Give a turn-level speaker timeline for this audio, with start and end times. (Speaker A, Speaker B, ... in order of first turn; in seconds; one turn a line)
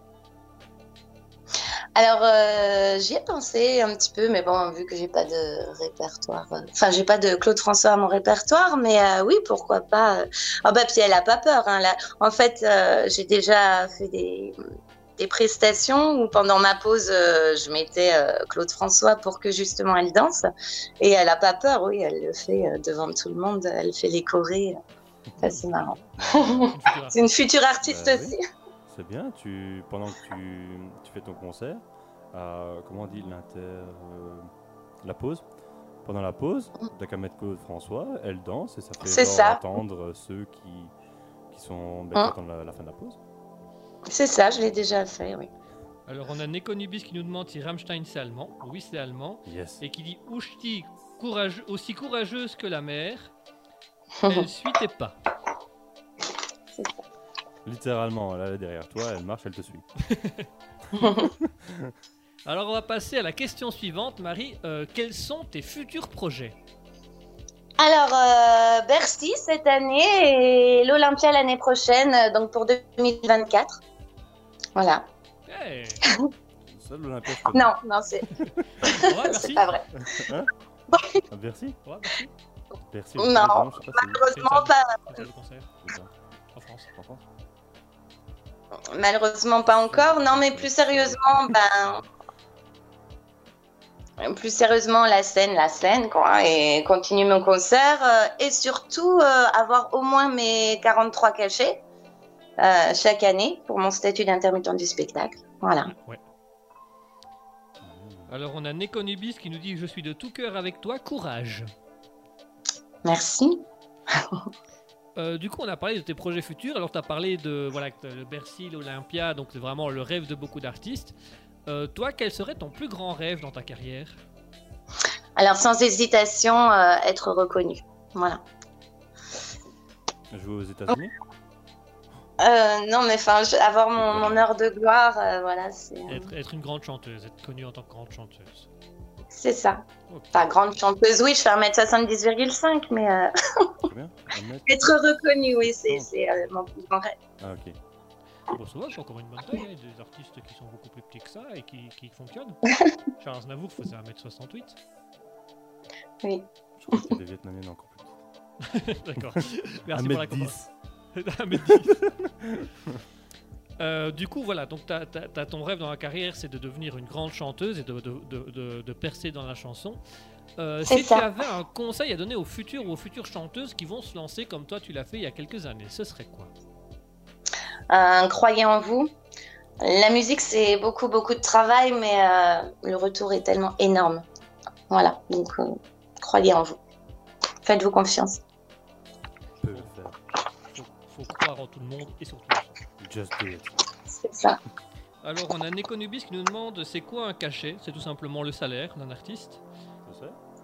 Speaker A: 1.9-14.6
Speaker A: 15.2-20.5
Speaker A: 21.0-24.8
Speaker B: 25.4-27.3
Speaker A: 25.4-28.4
Speaker C: 26.2-26.7
Speaker C: 27.8-28.4
Speaker C: 28.9-34.5
Speaker C: 35.0-35.4
Speaker C: 36.0-40.9
Speaker A: 39.0-39.6
Speaker C: 41.5-43.2
Speaker A: 44.0-45.5
Speaker B: 46.1-53.3
Speaker C: 49.5-49.8
Speaker A: 54.2-54.5
Speaker B: 54.2-55.2
Speaker A: 56.8-57.0
Speaker C: 57.6-59.9
Speaker B: 60.1-60.5
Speaker A: 61.0-61.3
Speaker C: 61.0-61.9
Speaker B: 62.4-66.5
Speaker A: 67.8-73.8
Speaker A: 74.8-75.0
Speaker B: 75.5-76.0
Speaker C: 76.6-77.7
Speaker A: 77.5-78.3
Speaker B: 78.8-79.7
Speaker A: 78.8-80.3
Speaker C: 80.0-80.5
Speaker A: 80.9-81.2
Speaker C: 81.3-81.8
Speaker B: 81.8-82.3
Speaker C: 82.8-84.3
Speaker A: 83.2-84.8
Speaker B: 84.3-85.7
Speaker C: 85.8-86.1
Speaker B: 86.5-86.9
Speaker C: 86.9-87.2
Speaker A: 88.9-92.0
Speaker C: 89.7-91.9
Speaker A: 94.2-101.8
Speaker A: 102.6-105.9
Speaker B: 105.8-106.2
Speaker C: 107.8-108.3
Speaker B: 108.3-111.7
Speaker A: 113.0-114.4
Speaker B: 115.2-124.2
Speaker A: 125.3-128.4
Speaker C: 130.3-131.1
Speaker A: 132.4-136.2
Speaker C: 133.9-134.5
Speaker B: 136.1-138.7
Speaker A: 139.3-143.7
Speaker B: 140.1-140.5
Speaker C: 143.8-144.9
Speaker A: 144.7-147.1
Speaker C: 145.6-146.1
Speaker C: 147.4-147.8
Speaker B: 148.5-152.6
Speaker B: 153.2-154.8
Speaker A: 156.2-157.1
Speaker C: 156.8-158.2
Speaker B: 158.6-160.6
Speaker C: 159.9-160.7
Speaker B: 161.1-162.0
Speaker C: 162.0-163.0
Speaker B: 163.8-170.0
Speaker B: 170.6-176.5
Speaker A: 170.9-171.2
Speaker A: 177.9-179.1
Speaker A: 179.8-184.2
Speaker A: 184.9-186.8
Speaker A: 187.7-188.4
Speaker C: 189.6-190.2
Speaker B: 190.7-192.7
Speaker C: 193.0-193.8
Speaker A: 194.1-194.6
Speaker B: 195.2-199.6
Speaker C: 200.1-200.3